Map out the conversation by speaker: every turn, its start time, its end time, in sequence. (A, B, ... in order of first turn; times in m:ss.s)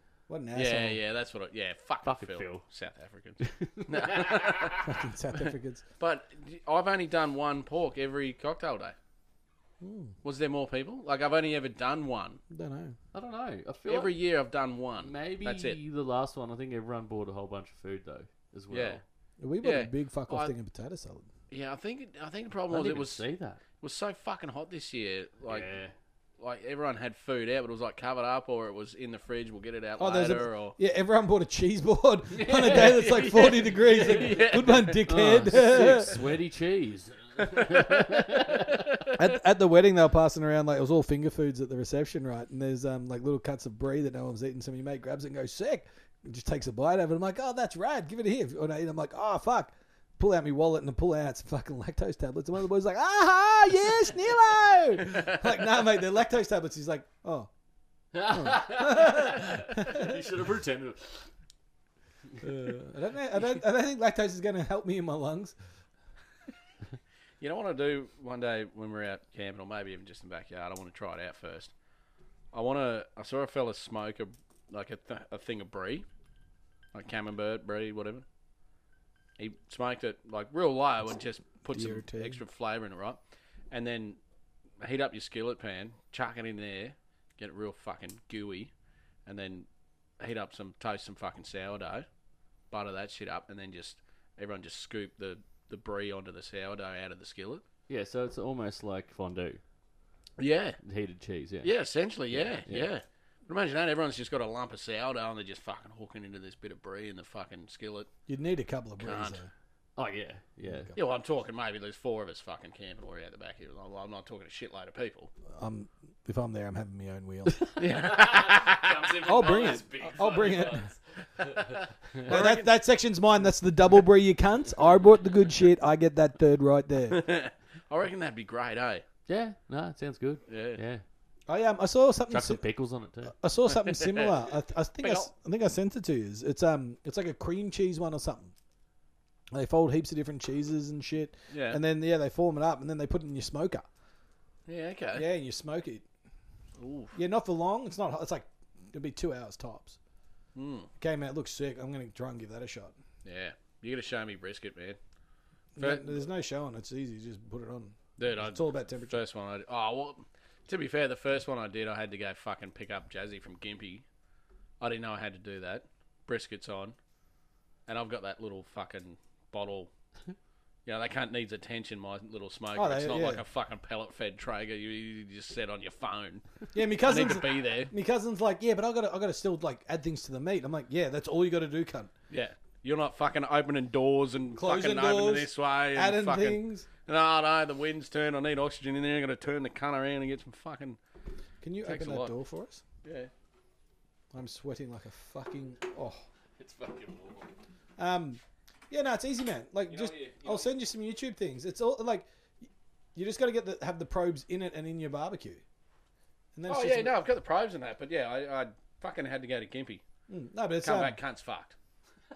0:00.3-0:01.0 A
0:00.5-0:04.9 B
0:02.0-0:02.6 C
0:03.4-0:04.8 C
0:04.8-0:05.8 A
0:06.0-0:09.0 B
0:09.8-0:10.1 A
0:10.2-0:12.4 B
0:12.5-0:13.0 A
0:13.1-0:14.2 C
0:13.9-0:15.8 B
0:15.0-0:19.0 C
0:18.7-0:19.0 B
0:19.4-0:21.3 A
0:19.6-0:20.5 B
0:21.5-0:23.2 B
0:22.7-0:23.6 C
0:23.8-0:25.7 B
0:25.5-0:25.9 C
0:26.4-0:30.8 B
0:30.0-0:36.2 A
0:32.3-0:39.0 C
0:32.7-0:35.0 B
0:37.5-0:38.0 B
0:39.1-0:57.5 A
0:58.1-1:01.3 C
0:58.3-1:00.2 A
1:02.4-1:05.6 A
1:07.4-1:11.7 B
1:12.5-1:16.1 B
1:16.9-1:18.2 B
1:19.4-1:23.2 B
1:21.7-1:22.4 A
1:23.7-1:24.2 B
1:24.8-1:28.7 B
1:29.3-1:29.7 B
1:30.2-1:32.1 B
1:32.7-1:37.6 B
1:37.9-1:39.6 C
1:40.4-1:40.8 B
1:40.8-1:41.7 C
1:41.6-1:48.1 B
1:42.3-1:42.9 C
1:48.3-1:49.5 A
1:49.0-1:49.4 B
1:50.0-1:50.9 C
1:50.7-1:51.0 A
1:51.0-1:55.3 B
1:55.5-1:57.6 A
1:57.6-2:02.3 C
1:57.8-1:58.9 B
1:59.2-2:00.9 A
2:02.2-2:02.7 B
2:02.3-2:07.2 A
2:07.1-2:09.0 B
2:09.3-2:11.0 C
2:10.5-2:10.8 B
2:11.5-2:12.6 A
2:12.3-2:13.4 C
2:13.3-2:18.5 A
2:13.9-2:14.3 B
2:15.0-2:15.3 B
2:19.5-2:23.9 A
2:21.5-2:21.8 B
2:24.7-2:25.3 B
2:25.1-2:26.0 A
2:26.8-2:27.2 B
2:27.1-2:30.0 A
2:30.6-2:30.9 B
2:31.0-2:33.0 A
2:33.2-2:35.0 B
2:35.8-2:39.2 A
2:35.8-2:36.3 B
2:38.2-2:44.0 B
2:44.8-2:47.0 B
2:47.9-2:49.9 B
2:50.9-2:56.4 B
2:52.7-2:53.4 A
2:56.7-3:02.1 A
2:57.0-2:57.9 B
3:02.3-3:11.0 B
3:04.6-3:06.9 A
3:11.6-3:12.8 A
3:11.8-3:12.3 B
3:13.0-3:13.3 B
3:14.3-3:16.2 A
3:16.6-3:17.5 C
3:18.0-3:25.6 A
3:19.9-3:20.7 B
3:26.6-3:27.2 A
3:26.7-3:30.0 B
3:30.3-3:31.2 A
3:30.8-3:31.8 B